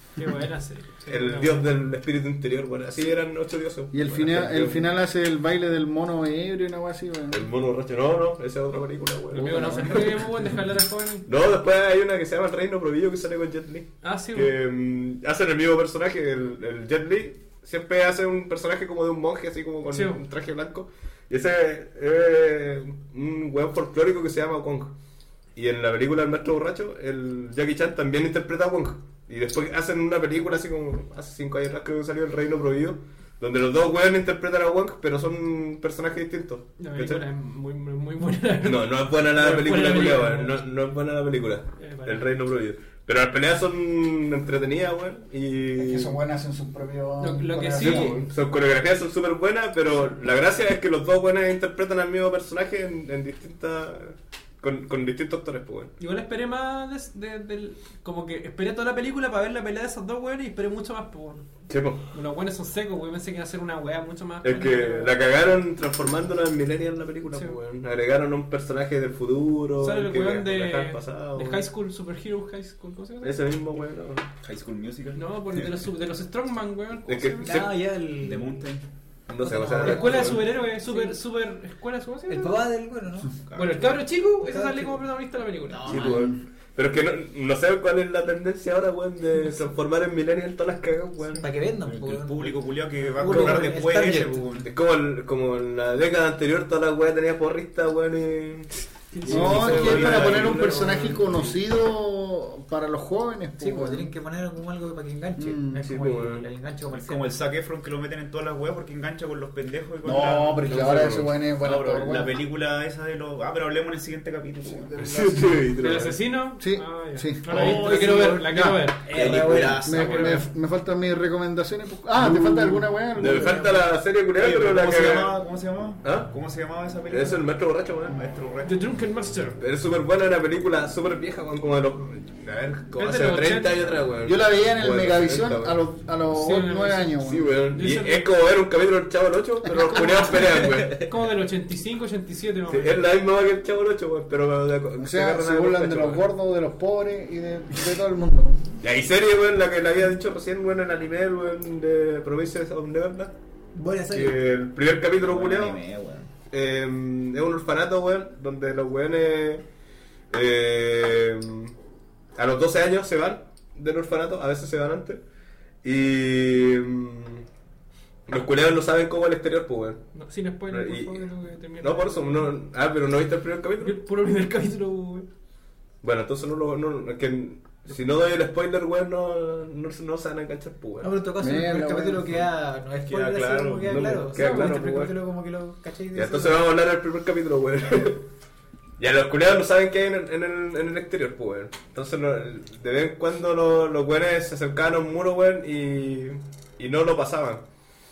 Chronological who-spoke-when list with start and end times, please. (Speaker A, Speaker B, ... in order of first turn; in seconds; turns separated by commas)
Speaker A: 0.2-1.7, Speaker B: 1.1-4.8, Speaker C: 3.9-7.5, Speaker B: 7.3-10.2, Speaker A: 9.3-11.3, Speaker C: 9.3-10.2, Speaker B: 11.3-24.9, Speaker A: 14.0-14.5, Speaker A: 19.9-20.2, Speaker B: 25.5-37.2, Speaker A: 36.8-40.6, Speaker B: 38.6-46.1, Speaker A: 41.8-42.3, Speaker C: 45.8-48.3, Speaker A: 47.2-48.2, Speaker B: 47.8-55.9, Speaker A: 56.0-61.5, Speaker B: 61.7-62.0, Speaker A: 62.1-65.1, Speaker B: 64.4-71.6, Speaker A: 67.3-67.6, Speaker A: 69.8-73.4, Speaker B: 73.2-74.3, Speaker D: 74.4-75.3, Speaker A: 75.1-77.6, Speaker B: 77.1-77.7, Speaker E: 77.4-78.6, Speaker D: 78.1-78.8, Speaker B: 79.3-80.4, Speaker E: 79.4-81.2, Speaker A: 79.8-82.6, Speaker E: 82.3-83.4, Speaker D: 83.5-84.0, Speaker A: 83.5-86.0, Speaker E: 84.4-85.0, Speaker E: 85.7-86.3, Speaker B: 85.8-91.5, Speaker C: 86.0-86.3, Speaker E: 91.4-92.6, Speaker D: 91.9-94.7, Speaker E: 93.2-94.4, Speaker B: 93.2-94.1, Speaker B: 94.7-101.6, Speaker C: 99.3-104.1, Speaker E: 103.6-107.3, Speaker C: 105.4-105.9, Speaker B: 105.8-106.5, Speaker D: 106.9-111.0, Speaker C: 110.0-112.3, Speaker B: 110.6-111.3, Speaker D: 111.6-115.2, Speaker C: 114.7-115.7, Speaker B: 115.0-116.2, Speaker A: 115.8-119.1, Speaker C: 116.6-118.9, Speaker D: 117.5-118.5, Speaker E: 117.6-118.5, Speaker E: 119.0-120.0, Speaker D: 119.1-120.4, Speaker C: 119.5-123.7, Speaker B: 122.2-125.4, Speaker E: 123.2-123.8, Speaker D: 124.3-127.5, Speaker B: 126.0-126.3, Speaker B: 127.1-128.2, Speaker D: 128.1-128.7, Speaker A: 128.6-129.6, Speaker B: 129.6-135.8, Speaker A: 133.0-133.8, Speaker C: 134.2-137.6, Speaker A: 136.3-137.2, Speaker B: 137.2-141.1, Speaker A: 137.7-138.2, Speaker A: 139.8-143.0, Speaker B: 142.7-146.2, Speaker C: 145.0-148.7, Speaker B: 148.8-153.3, Speaker E: 153.7-154.4, Speaker B: 154.1-155.8, Speaker D: 155.1-156.3, Speaker B: 156.4-159.6, Speaker B: 160.3-161.7, Speaker B: 162.3-165.2, Speaker B: 165.8-167.4, Speaker B: 168.3-170.0, Speaker A: 170.1-172.5, Speaker B: 170.7-171.2, Speaker B: 171.8-174.0, Speaker A: 173.8-175.3, Speaker B: 176.0-181.1, Speaker E: 181.0-186.7, Speaker C: 181.4-182.4, Speaker D: 183.1-184.1, Speaker B: 183.8-185.2, Speaker A: 184.3-184.8, Speaker B: 186.1-188.2, Speaker B: 189.0-197.6